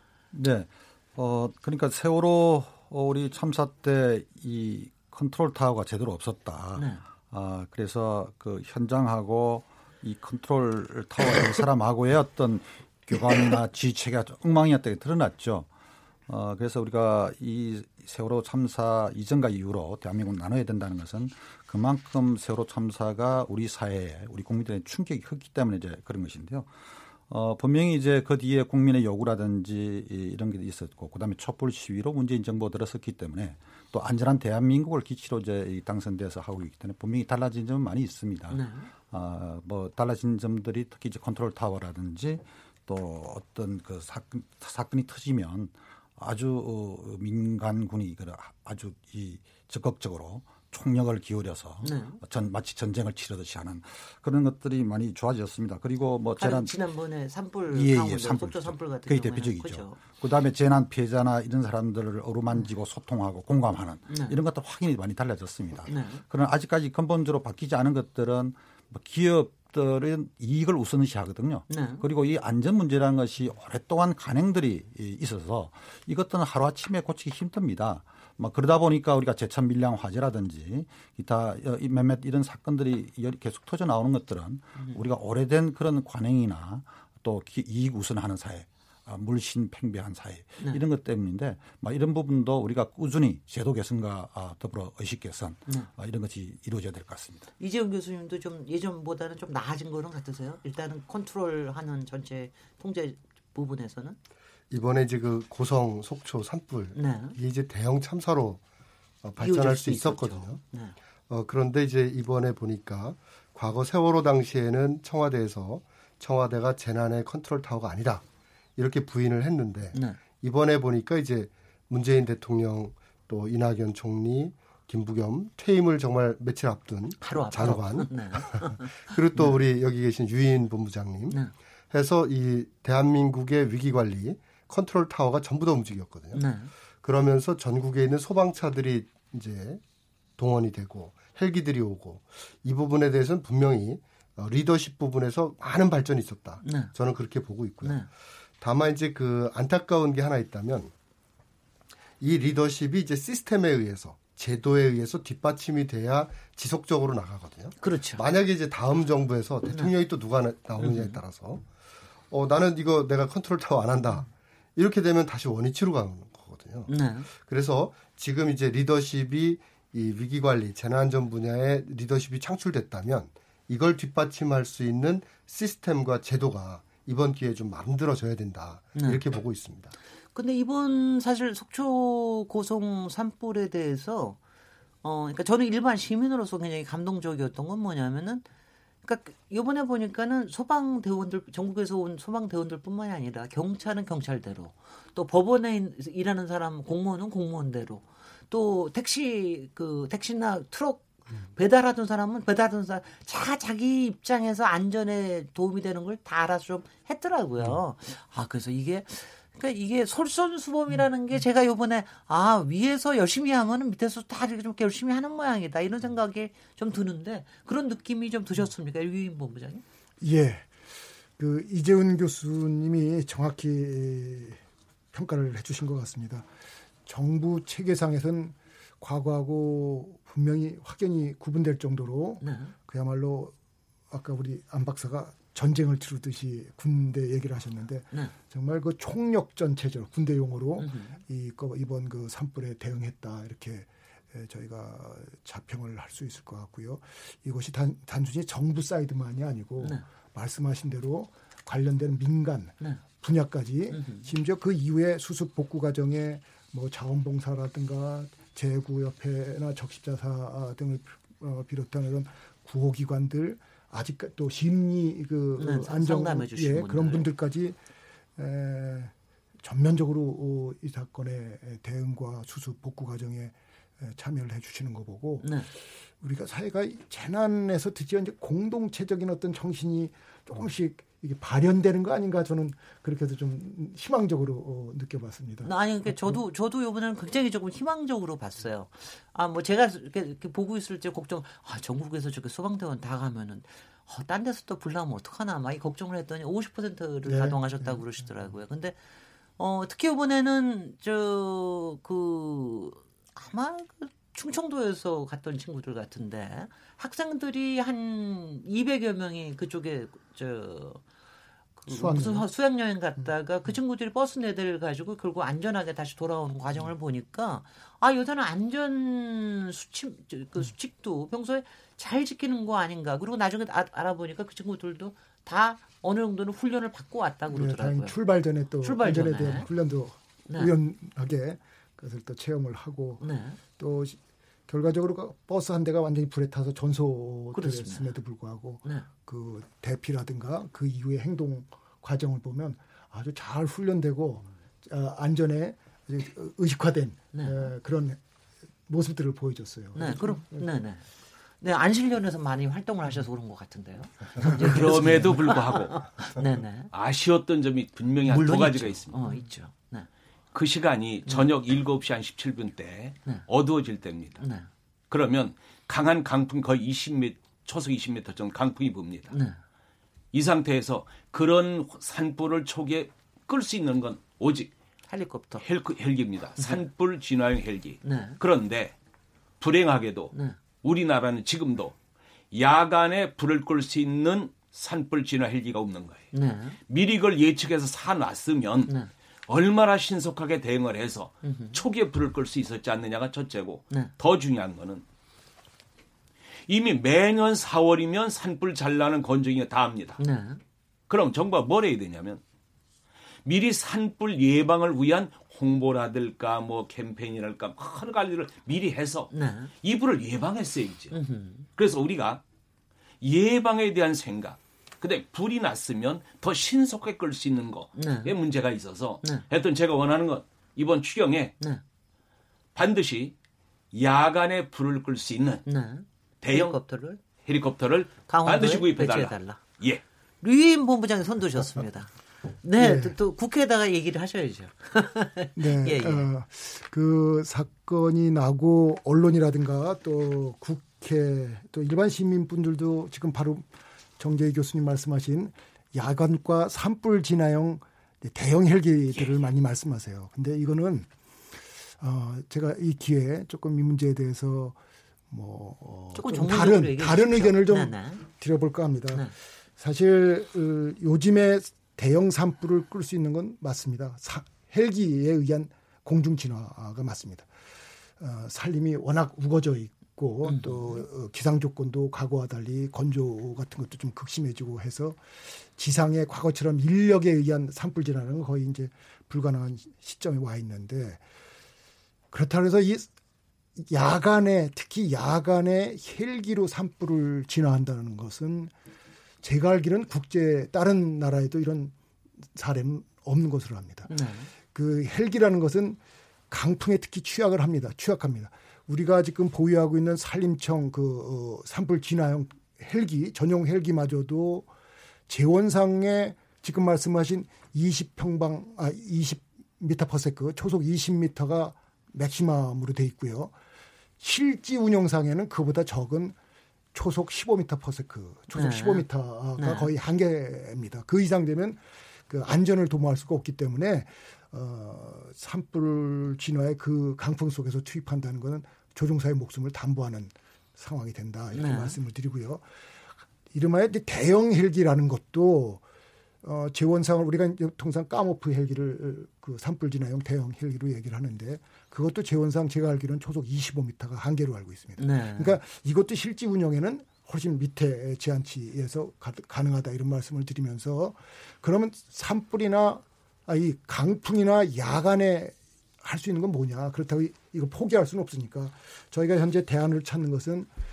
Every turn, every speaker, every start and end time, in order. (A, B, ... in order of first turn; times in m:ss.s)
0:00.3-0:15.7 A
0:06.8-0:07.0 B
0:16.3-0:26.7 A
0:27.3-0:56.7 A
0:38.5-0:38.9 B
0:51.8-0:52.2 B
0:56.4-1:00.0 B
0:57.7-1:37.5 A
1:04.1-1:04.3 B
1:05.9-1:06.2 B
1:11.7-1:12.0 B
1:37.6-1:44.2 B
1:44.7-1:48.6 C
1:46.9-1:47.4 B
1:49.2-1:50.6 C
1:49.4-1:50.9 B
1:51.3-1:58.2 C
1:58.8-2:11.4 C
1:59.9-2:00.2 B
2:07.2-2:09.5 B
2:11.9-2:16.4 C
2:16.3-2:16.7 B
2:17.0-2:19.8 C
2:20.4-2:28.0 C
2:26.6-2:26.9 B
2:28.6-2:30.9 C
2:32.2-2:41.7 C
2:37.8-2:38.2 B
2:40.8-2:41.2 B
2:42.3-3:00.0 C
2:46.9-2:47.3 B
2:58.9-2:59.2 B
3:00.3-3:04.4 B
3:05.0-3:08.4 B
3:09.0-3:39.8 B
3:40.2-3:44.6 D
3:45.1-3:46.5 D
3:47.0-3:53.5 D
3:52.4-3:52.7 B
3:54.1-4:27.8 D
4:00.8-4:01.2 B
4:13.9-4:14.3 B
4:25.6-4:27.2 B
4:28.4-4:46.4 D
4:35.4-4:35.7 B
4:45.6-4:59.0 B
4:57.2-4:58.1 D
4:59.6-5:11.0 B
5:11.8-5:28.2 B
5:11.9-5:12.5 D
5:27.5-5:33.2 D
5:28.8-5:29.7 B
5:33.2-5:33.6 B
5:33.8-5:48.2 D
5:37.5-5:38.1 B
5:47.3-5:47.7 B
5:48.9-5:50.7 D
5:49.9-5:51.0 B
5:51.6-5:56.9 B
5:54.4-5:55.3 D
5:54.5-5:56.1 E
5:56.9-5:59.2 E
5:58.2-6:00.1 B
6:00.5-6:04.4 E
6:04.4-6:04.7 B
6:05.1-6:09.3 E
6:09.3-6:09.6 B
6:10.3-6:14.7 E
6:15.1-6:15.6 B
6:15.6-6:18.9 E
6:18.0-6:18.4 B
6:19.6-6:21.9 E
6:22.5-6:26.3 E
6:26.3-6:26.8 B
6:26.9-6:28.9 E
6:29.5-6:35.0 E
6:31.4-6:31.8 B
6:36.7-6:40.2 E
6:40.2-6:40.6 B
6:41.1-6:42.4 E
6:43.4-6:51.1 E
6:49.3-6:49.7 B
6:51.1-6:51.7 B
6:51.7-6:52.4 E
6:53.2-7:01.5 E
6:58.0-6:58.3 B
7:02.7-7:03.3 E
7:03.9-7:05.6 E
7:05.6-7:07.2 B
7:06.4-7:06.8 E
7:07.4-7:10.0 E
7:08.3-7:09.6 B
7:10.4-7:12.1 B
7:12.6-7:16.3 B
7:12.8-7:13.2 D
7:15.5-7:31.1 D
7:32.0-7:34.8 D
7:35.3-7:47.5 D
7:36.1-7:38.2 B
7:48.2-8:01.2 D
7:50.4-7:51.0 B
8:02.3-8:03.1 D
8:03.8-8:08.7 D
8:09.4-8:11.9 D
8:12.5-8:16.0 D
8:14.1-8:14.5 B
8:16.5-8:24.7 D
8:25.3-8:33.5 D
8:34.2-8:36.4 D
8:36.9-8:52.6 D
8:38.5-8:39.0 B
8:39.6-8:39.9 B
8:51.5-8:52.0 B
8:53.5-8:55.8 D
8:56.4-9:20.7 D
9:05.0-9:05.6 B